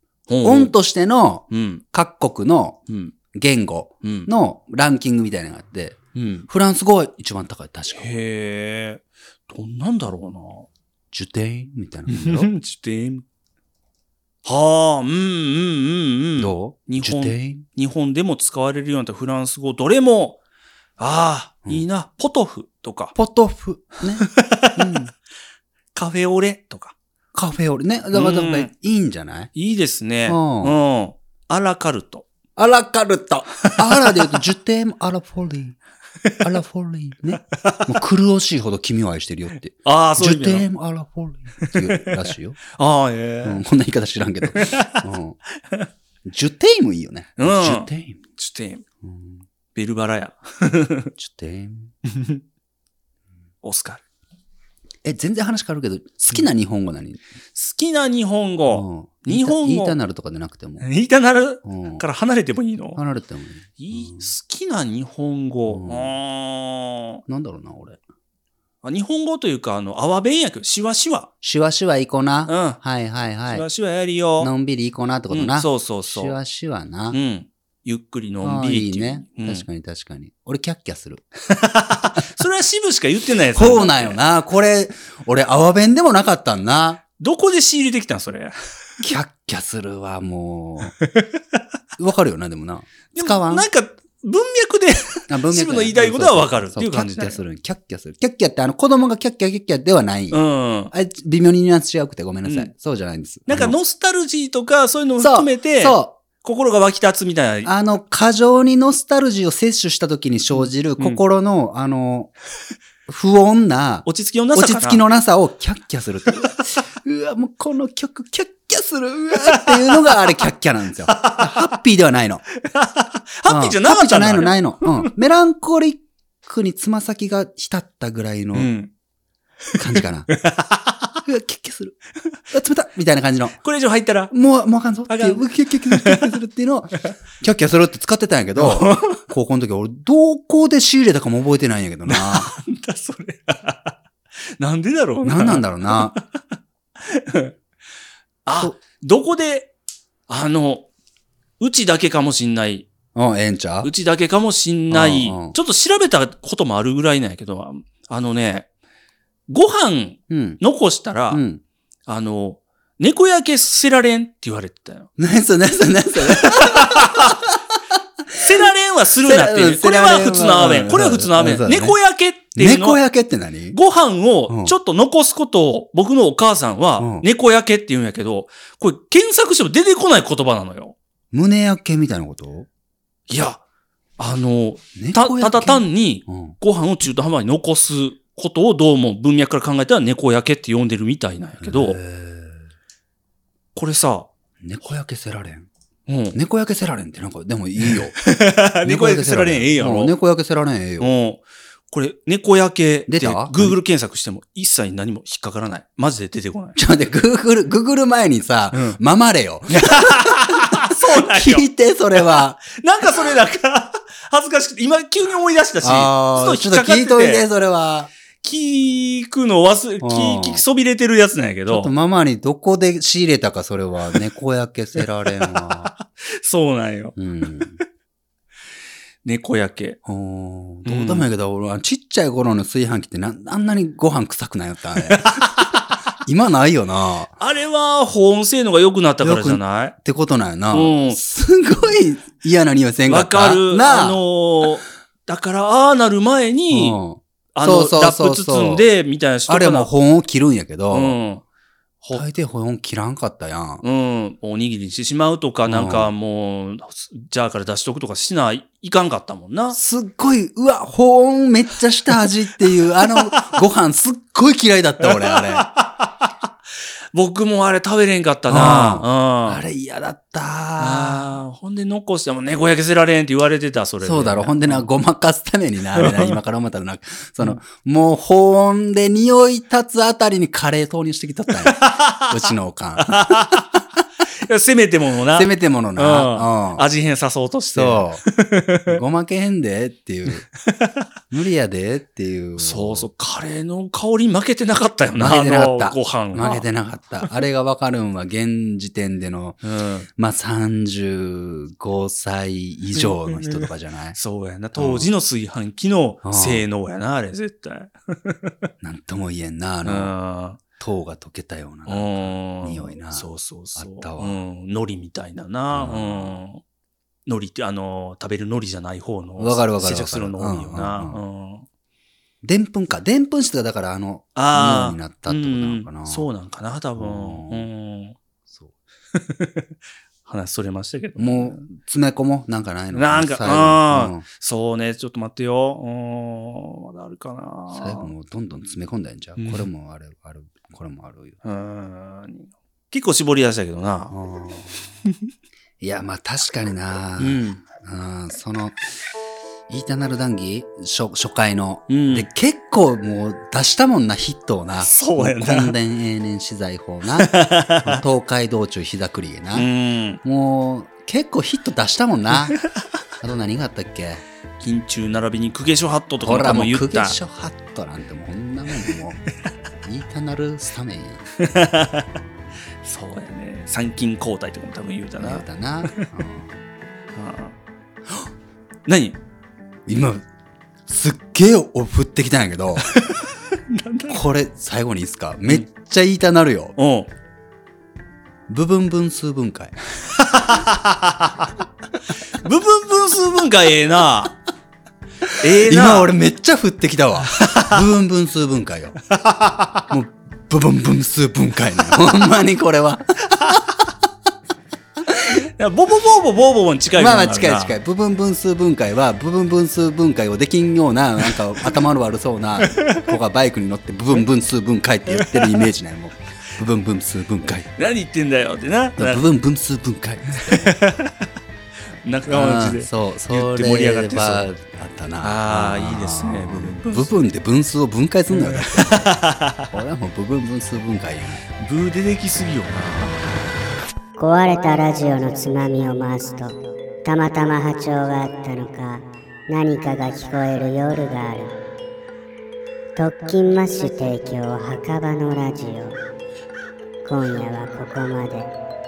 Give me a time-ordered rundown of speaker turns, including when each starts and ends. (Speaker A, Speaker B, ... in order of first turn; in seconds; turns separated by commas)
Speaker A: 0.3-0.7, Speaker B: 0.4-2.8, Speaker A: 1.5-1.8, Speaker A: 2.9-3.1, Speaker B: 3.3-8.2, Speaker A: 4.0-4.3, Speaker A: 6.2-6.5, Speaker A: 8.0-10.7, Speaker B: 11.1-12.5, Speaker A: 12.1-13.2, Speaker A: 14.4-20.4, Speaker B: 16.4-17.6, Speaker A: 21.0-23.1, Speaker B: 23.1-25.1, Speaker A: 24.2-25.1, Speaker A: 25.9-26.9, Speaker B: 27.3-29.5, Speaker A: 28.1-28.7, Speaker A: 29.5-32.3, Speaker B: 30.3-30.8, Speaker B: 32.6-35.8, Speaker A: 33.7-34.1, Speaker B: 36.4-42.6, Speaker A: 37.6-37.9, Speaker A: 39.8-40.7, Speaker A: 41.6-43.6, Speaker B: 43.4-45.4, Speaker A: 44.5-45.0, Speaker B: 46.2-48.2, Speaker A: 47.4-48.8, Speaker B: 49.0-49.4, Speaker A: 49.8-51.1, Speaker B: 51.2-51.9, Speaker A: 52.1-52.4, Speaker A: 53.6-54.0, Speaker B: 55.0-57.2, Speaker A: 57.5-60.0, Speaker B: 58.7-60.9, Speaker A: 60.8-63.0, Speaker B: 61.6-62.0, Speaker B: 63.0-64.3, Speaker A: 63.8-67.2, Speaker B: 65.7-66.1, Speaker B: 67.3-68.0, Speaker A: 68.8-71.3, Speaker B: 71.4-73.7, Speaker A: 72.5-72.8, Speaker A: 73.5-74.5, Speaker B: 74.4-77.2, Speaker A: 75.3-76.4, Speaker A: 77.1-79.7, Speaker B: 78.4-81.2, Speaker A: 81.5-84.2, Speaker B: 83.5-87.0, Speaker A: 87.2-88.6, Speaker B: 89.0-91.0, Speaker A: 91.0-91.3, Speaker B: 92.0-93.7, Speaker A: 93.2-97.4, Speaker B: 95.3-100.4, Speaker A: 100.3-100.9, Speaker B: 100.9-103.8, Speaker A: 102.5-102.7, Speaker A: 103.5-107.7, Speaker B: 105.2-106.1, Speaker B: 107.7-112.3, Speaker B: 113.1-122.5, Speaker A: 114.1-115.0, Speaker A: 119.3-120.2, Speaker A: 121.1-121.7, Speaker A: 122.6-124.6, Speaker B: 123.5-128.7, Speaker A: 128.5-128.9, Speaker B: 129.8-130.3, Speaker A: 130.0-131.2, Speaker B: 131.2-132.0, Speaker B: 132.5-133.6, Speaker A: 133.6-134.3, Speaker B: 134.3-142.5, Speaker A: 135.1-136.3, Speaker A: 138.6-139.2, Speaker A: 142.1-144.0, Speaker A: 144.6-146.4, Speaker B: 145.2-146.2, Speaker A: 147.0-147.5, Speaker A: 148.4-149.7, Speaker A: 150.3-150.9, Speaker A: 151.6-152.9, Speaker B: 153.2-153.9, Speaker A: 153.8-158.7, Speaker B: 154.9-155.6, Speaker A: 159.5-161.4, Speaker B: 160.3-160.6, Speaker B: 161.3-161.6, Speaker A: 162.1-165.1, Speaker B: 165.2-167.5, Speaker A: 166.2-167.4, Speaker B: 168.3-168.5, Speaker A: 168.4-173.0, Speaker B: 169.2-172.0, Speaker B: 172.6-173.8, Speaker A: 173.7-181.0, Speaker B: 174.5-174.8, Speaker B: 177.0-177.3, Speaker B: 181.3-182.7, Speaker A: 183.3-183.6, Speaker A: 184.2-192.0, Speaker B: 185.0-186.6, Speaker B: 191.6-192.6, Speaker A: 193.8-194.3, Speaker B: 194.6-195.7, Speaker A: 196.1-196.4, Speaker B: 196.3-198.2, Speaker A: 197.8-200.1, Speaker B: 198.8-201.1, Speaker A: 201.0-206.8, Speaker B: 203.1-203.8, Speaker B: 206.8-213.3, Speaker A: 208.7-209.0, Speaker A: 209.7-211.7, Speaker A: 212.7-217.5, Speaker B: 215.8-218.1, Speaker A: 218.4-221.9, Speaker B: 220.0-220.6, Speaker B: 221.7-225.9, Speaker A: 225.2-227.2, Speaker B: 227.2-227.8, Speaker A: 229.2-230.0, Speaker B: 230.1-237.3, Speaker A: 230.9-231.3, Speaker A: 235.1-235.9, Speaker A: 237.4-239.9, Speaker B: 239.2-244.2, Speaker A: 240.7-241.2, Speaker A: 243.1-247.0, Speaker B: 246.7-248.9, Speaker A: 247.5-249.9, Speaker B: 249.5-251.2, Speaker A: 250.9-251.4, Speaker B: 252.1-253.8, Speaker A: 253.8-259.8, Speaker B: 255.7-256.1, Speaker B: 259.7-265.7, Speaker A: 263.1-263.6, Speaker A: 265.0-266.3, Speaker A: 267.1-269.6, Speaker B: 268.5-271.2, Speaker A: 270.8-274.9, Speaker B: 274.0-283.6, Speaker A: 276.0-276.4, Speaker A: 281.6-282.5, Speaker A: 283.0-283.7, Speaker A: 284.4-289.0, Speaker B: 285.4-286.9, Speaker B: 287.7-288.2, Speaker B: 288.9-290.5, Speaker A: 290.7-291.1, Speaker B: 291.3-293.1, Speaker A: 292.6-296.7, Speaker B: 295.2-299.6, Speaker A: 299.6-300.1, Speaker B: 300.2-304.2, Speaker A: 303.0-303.6, Speaker A: 304.1-308.7, Speaker B: 304.8-305.1, Speaker B: 306.2-306.6, Speaker B: 308.8-310.1, Speaker A: 309.9-310.6, Speaker B: 310.8-314.4, Speaker A: 311.9-316.6, Speaker B: 315.7-316.4, Speaker A: 317.3-321.7, Speaker B: 319.4-321.2, Speaker B: 322.4-326.3, Speaker A: 324.4-328.2, Speaker B: 327.0-327.7, Speaker A: 329.1-329.7, Speaker A: 330.2-331.7, Speaker B: 331.2-334.3, Speaker A: 332.9-338.1, Speaker B: 337.7-341.4, Speaker A: 339.4-339.7, Speaker A: 341.4-344.1, Speaker B: 344.1-344.9, Speaker B: 345.8-348.8, Speaker A: 347.2-347.6, Speaker B: 349.7-359.7, Speaker A: 351.9-352.3, Speaker A: 354.8-355.8, Speaker A: 357.2-358.0, Speaker A: 359.5-360.2, Speaker B: 360.2-362.6, Speaker B: 363.2-364.2, Speaker A: 364.6-367.2, Speaker B: 366.2-369.2, Speaker B: 369.8-371.3, Speaker A: 371.4-372.1, Speaker B: 372.2-372.5, Speaker A: 372.8-376.1, Speaker B: 375.2-376.6, Speaker A: 377.2-377.6, Speaker A: 378.9-379.2, Speaker B: 379.9-380.3, Speaker B: 380.9-382.9, Speaker A: 382.8-384.2, Speaker B: 384.1-386.8, Speaker A: 386.8-387.1, Speaker B: 388.5-389.8, Speaker A: 390.1-391.5, Speaker A: 392.3-394.4, Speaker B: 395.3-399.0, Speaker A: 395.4-396.1, Speaker A: 397.3-397.8, Speaker A: 399.1-399.9, Speaker B: 399.9-403.6, Speaker B: 405.1-405.4, Speaker A: 405.6-407.8, Speaker B: 407.0-417.7, Speaker A: 412.6-413.1, Speaker A: 415.1-415.7, Speaker A: 417.7-419.2, Speaker B: 419.0-420.8, Speaker A: 420.4-421.3, Speaker A: 422.0-424.5, Speaker B: 422.3-429.2, Speaker A: 425.2-427.1, Speaker A: 428.3-429.7, Speaker B: 429.7-431.4, Speaker A: 431.6-433.5, Speaker C: 434.2-441.6, Speaker C: 443.0-446.0, Speaker C: 447.1-448.5